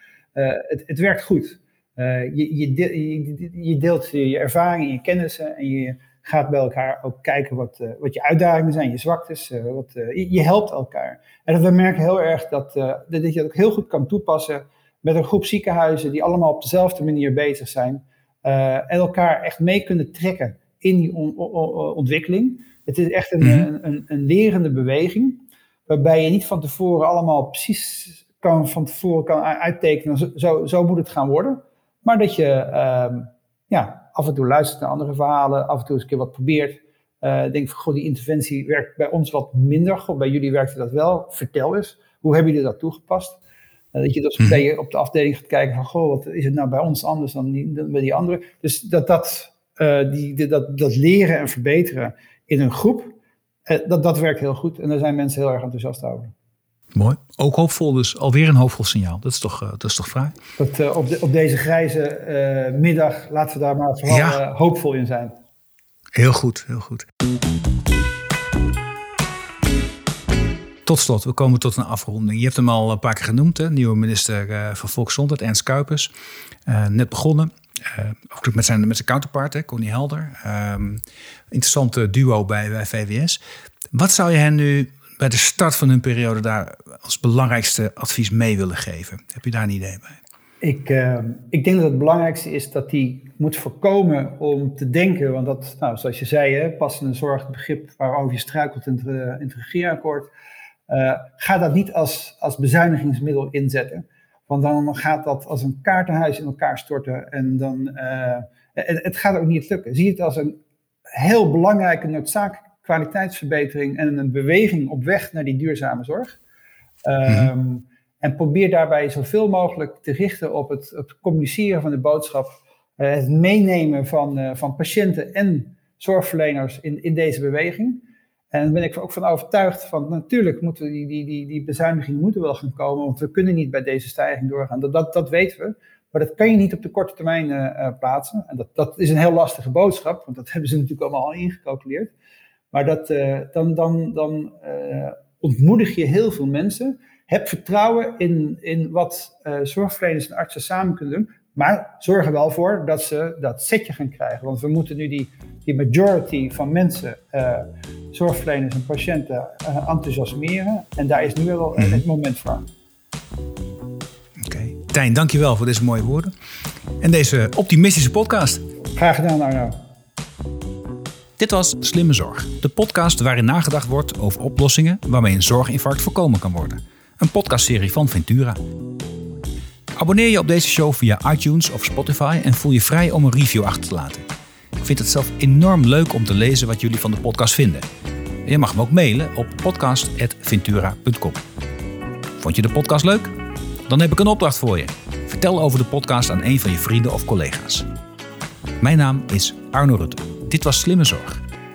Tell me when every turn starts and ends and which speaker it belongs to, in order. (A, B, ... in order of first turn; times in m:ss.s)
0:00.3-0:43.4 A
0:23.4-0:23.6 B
0:43.9-0:56.3 A
0:56.9-1:00.4 B
1:00.6-1:05.4 A
1:04.1-1:04.4 B
1:06.1-1:07.1 B
1:10.8-1:16.1 B
1:16.6-1:23.4 B
1:23.9-1:30.2 B
1:30.6-1:40.3 A
1:40.9-1:50.6 A
1:51.1-1:56.4 A
1:57.0-2:22.1 A
2:22.7-2:42.6 A
2:41.8-2:42.0 B
2:44.4-2:46.3 B
2:47.0-2:48.6 B
2:49.0-2:49.8 A
2:51.4-2:58.6 B
3:00.0-3:07.8 B
3:08.4-3:11.4 B
3:12.4-3:13.3 B
3:13.9-3:17.9 B
3:18.8-3:21.4 B